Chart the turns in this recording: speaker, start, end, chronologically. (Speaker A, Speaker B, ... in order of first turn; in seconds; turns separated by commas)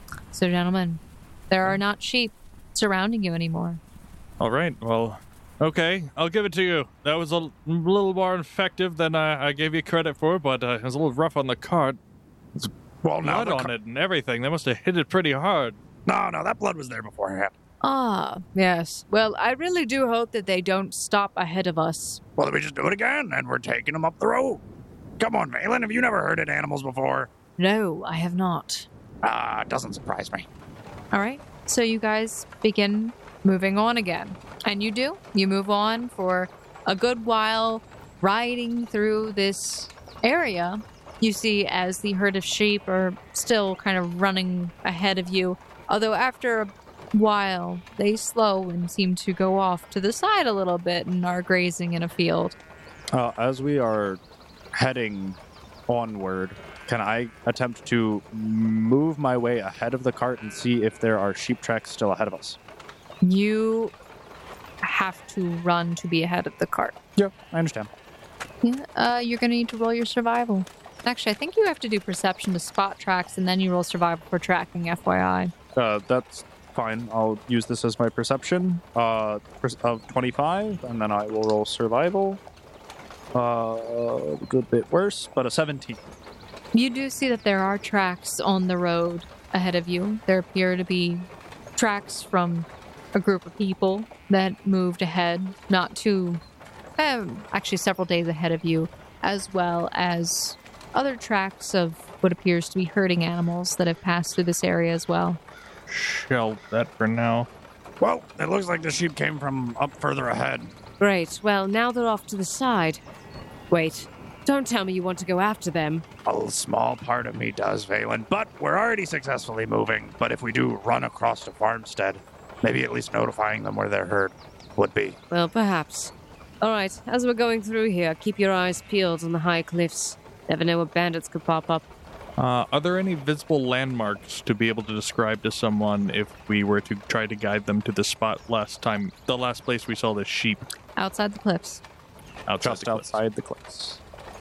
Speaker A: 0.3-3.8, Speaker B: 4.4-12.0, Speaker C: 13.0-13.7, Speaker B: 13.2-15.8, Speaker C: 16.1-17.5, Speaker A: 17.8-22.2, Speaker C: 22.4-24.6, Speaker C: 25.2-27.3, Speaker A: 27.6-28.9, Speaker C: 29.2-30.5, Speaker A: 31.1-52.5, Speaker D: 53.1-54.2, Speaker D: 54.7-62.6, Speaker A: 63.2-63.9, Speaker A: 64.8-66.9, Speaker D: 67.2-67.9, Speaker A: 68.6-75.5, Speaker D: 75.7-82.4, Speaker D: 83.3-86.0, Speaker A: 86.7-96.4, Speaker A: 97.0-105.4, Speaker B: 105.9-107.5, Speaker C: 108.0-110.7, Speaker E: 111.0-113.0, Speaker E: 113.7-116.0, Speaker C: 116.2-125.2, Speaker E: 125.3-131.8, Speaker B: 132.4-140.7, Speaker A: 140.9-141.8, Speaker B: 142.5-143.2, Speaker D: 142.6-144.0